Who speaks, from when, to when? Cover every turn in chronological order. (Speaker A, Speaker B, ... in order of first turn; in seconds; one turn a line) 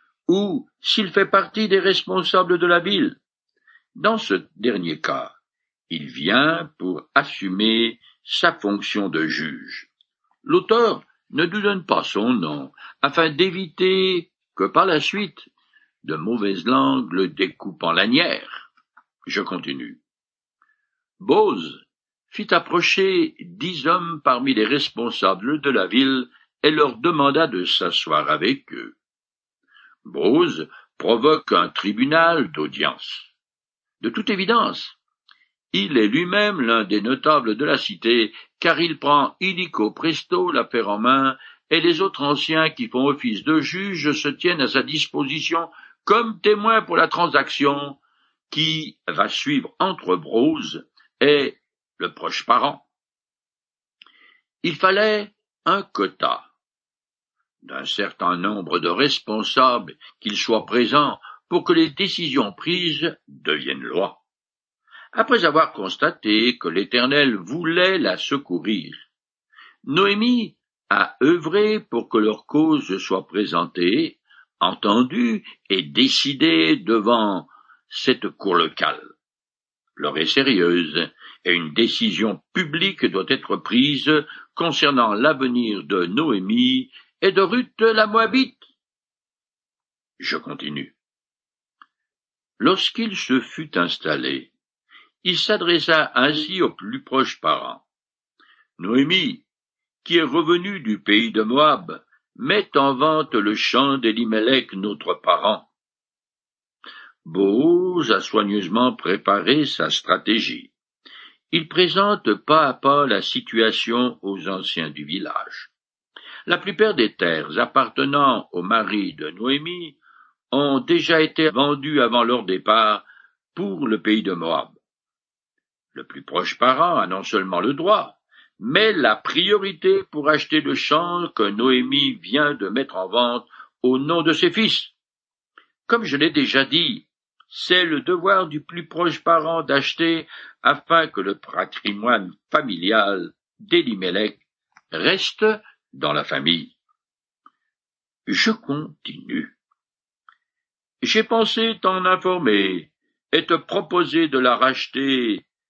Speaker A: 0.3-3.2
Speaker A: 4.0-5.3
Speaker A: 5.9-9.9
Speaker A: 10.4-15.5
Speaker A: 16.0-18.7
Speaker A: 19.2-20.0
Speaker A: 21.2-29.0
Speaker A: 30.0-33.3
Speaker A: 34.0-35.0
Speaker A: 35.7-48.0
Speaker A: 48.5-52.9
Speaker A: 54.6-56.5
Speaker A: 57.6-64.2
Speaker A: 65.1-69.1
Speaker A: 69.8-79.1
Speaker A: 80.0-88.6
Speaker A: 90.2-91.0
Speaker A: 92.6-94.5
Speaker A: 95.2-97.8
Speaker A: 98.8-99.5
Speaker A: 100.0-105.7
Speaker A: 107.2-110.7
Speaker A: 111.5-115.7
Speaker A: 116.5-120.0
Speaker A: 120.5-124.8
Speaker A: 125.9-134.9
Speaker A: 135.9-146.8
Speaker A: 148.3-149.6
Speaker A: 151.0-155.4